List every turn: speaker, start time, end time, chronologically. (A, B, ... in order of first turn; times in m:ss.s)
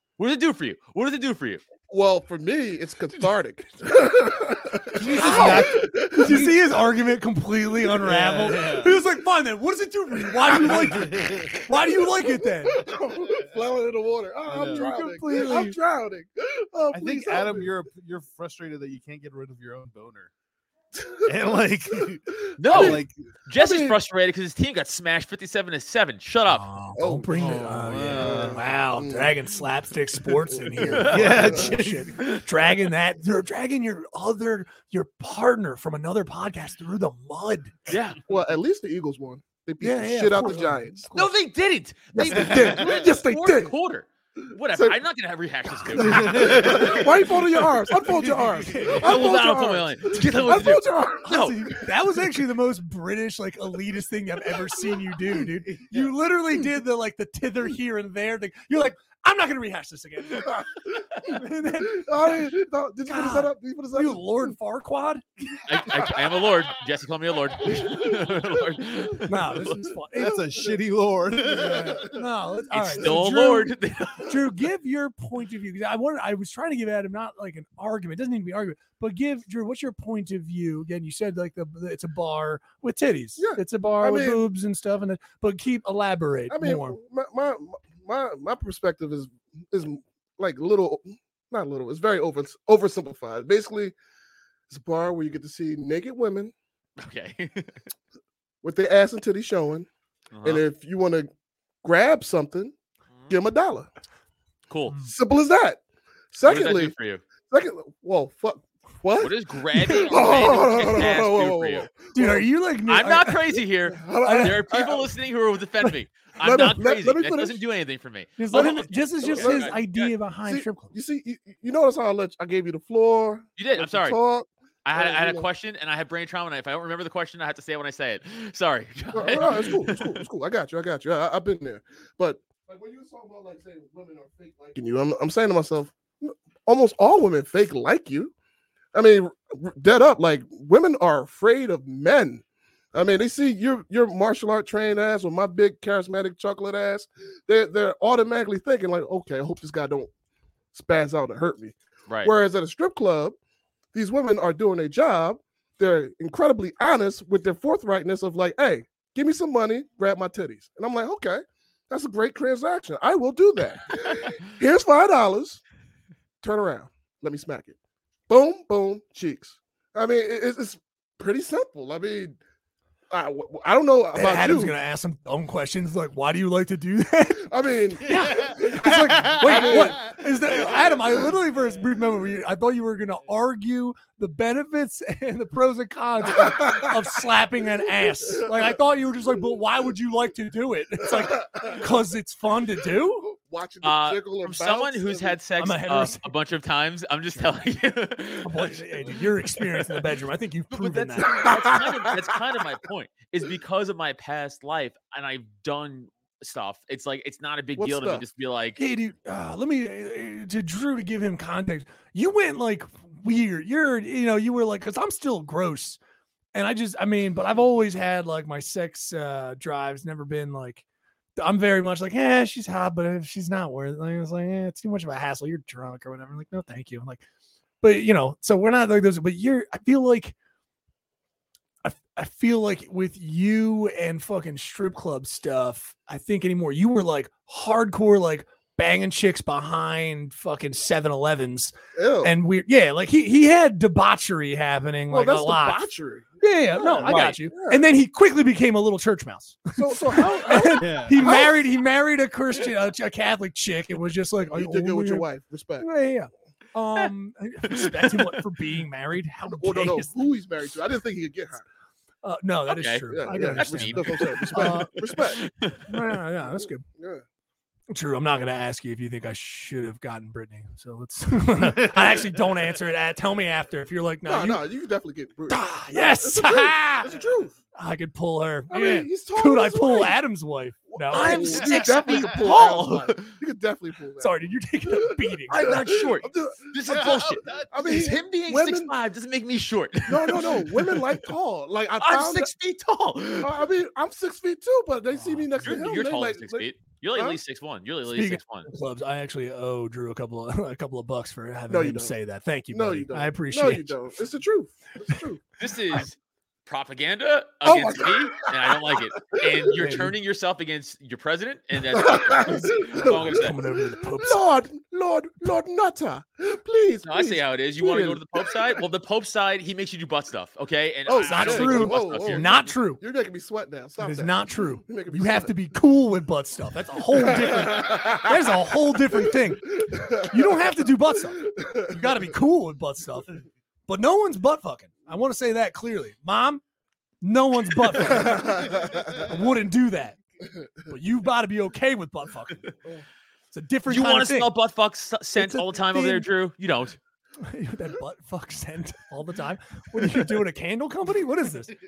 0:00.2-0:01.6 A
0:01.9-0:06.7 B
0:05.0-0:12.8 C
0:05.3-0:05.6 D
0:08.0-0:09.0 D
0:10.4-0:17.8 B
0:10.5-0:11.6 D
0:14.5-0:14.9 D
0:14.7-0:15.8 C
0:16.9-0:20.3 D
0:20.9-0:24.0 B
0:21.2-0:23.1 D
0:22.6-0:26.7 A
0:26.5-0:37.9 C
0:27.0-0:29.4 B
0:27.4-0:28.7 D
0:30.2-0:31.8 B
0:30.9-0:31.5 A
0:31.1-0:32.1 D
0:37.9-0:38.2 A
0:38.3-0:41.1 B
0:39.8-0:41.3 C
0:41.1-0:47.3 A
0:42.1-0:43.4 C
0:42.2-0:43.7 B
0:42.6-0:42.8 D
0:44.7-0:45.0 B
0:45.9-0:51.9 B
0:46.1-0:47.1 D
0:48.1-0:49.0 D
0:48.6-0:49.2 C
0:49.0-0:51.6 A
0:51.2-1:00.6 C
0:54.8-0:55.5 B
1:00.4-1:04.6 B
1:01.2-1:02.4 C
1:03.1-1:05.6 C
1:05.7-1:09.8 A
1:07.6-1:10.8 B
1:09.3-1:10.4 C
1:10.2-1:12.1 D
1:11.4-1:27.0 C
1:11.5-1:12.2 B
1:12.7-1:14.4 A
1:23.4-1:24.4 B
1:26.5-1:34.0 B
1:34.7-1:36.5 B
1:37.0-1:37.8 A
1:38.6-1:39.9 B
1:40.3-1:40.6 A
1:40.4-1:41.3 B
1:41.8-1:42.8 B
1:43.3-1:43.9 B
1:44.7-1:45.0 A
1:45.0-1:45.8 B
1:46.3-1:52.5 B
1:46.4-1:47.2 A
1:49.2-1:51.9 A
1:52.2-1:53.6 C
1:52.9-2:00.1 A
1:53.9-1:55.1 B
1:54.2-1:54.6 C
1:56.4-1:57.6 B
1:58.4-2:00.9 C
1:58.5-1:59.7 B
2:00.5-2:05.5 B
2:03.6-2:04.2 A
2:04.8-2:10.2 A
2:09.1-2:18.3 B
2:18.9-2:30.1 B
2:30.7-2:33.4 B
2:33.9-2:45.6 B
2:46.4-2:47.8 B
2:48.3-2:52.4 B
2:53.1-2:54.8 B
2:54.1-2:57.5 C
2:57.4-3:01.0 B
2:58.0-3:13.3 C
2:58.3-2:58.8 D
3:06.3-3:07.0 B
3:08.2-3:08.8 B
3:11.0-3:11.9 B
3:13.0-3:15.4 B
3:13.8-3:19.2 A
3:15.6-3:16.3 C
3:18.4-3:21.5 C
3:20.7-3:28.8 A
3:21.3-3:22.2 B
3:27.8-3:28.2 B
3:28.8-3:36.0 C
3:36.5-3:40.8 C
3:41.4-3:47.2 C
3:47.8-3:50.4 C
3:51.8-4:05.9 C
4:02.0-4:02.3 B
4:05.1-4:07.9 B
4:06.4-4:15.3 C
4:07.0-4:07.4 A
4:09.8-4:11.6 B
4:10.8-4:11.3 D
4:14.5-4:15.9 B
4:15.8-4:20.2 C
4:17.7-4:18.4 A
4:19.5-4:21.6 B
4:22.2-4:25.0 C
4:22.7-4:26.0 A
4:23.1-4:25.4 B
4:25.9-4:26.9 C
4:26.6-4:27.2 B
4:27.9-4:34.6 C
4:34.2-4:37.6 B
4:35.5-4:37.2 C
4:37.8-4:41.7 C
4:38.7-4:40.2 B
4:40.9-4:48.9 B
4:41.1-4:43.4 A
4:41.6-4:42.2 D
4:44.2-4:45.8 C
4:45.5-4:51.2 A
4:46.9-4:47.7 D
4:50.1-4:52.5 B
4:52.0-4:53.6 A
4:53.4-4:57.4 B
4:55.1-4:55.8 C
4:55.6-4:58.7 A
4:58.1-5:04.0 C
5:01.7-5:02.1 B
5:02.7-5:05.4 B
5:05.6-5:13.6 A
5:07.6-5:09.8 B
5:09.8-5:10.1 C
5:11.9-5:13.6 B
5:13.0-5:14.4 C
5:14.2-5:18.8 B
5:17.0-5:22.5 A
5:21.1-5:25.5 B
5:21.2-5:23.0 C
5:24.0-5:36.6 C
5:27.1-5:32.2 B
5:37.2-5:40.2 C
5:38.0-5:39.2 B
5:40.9-5:42.7 C
5:43.5-5:44.5 C
5:43.9-5:47.0 A
5:45.4-5:46.3 C
5:47.4-5:51.7 C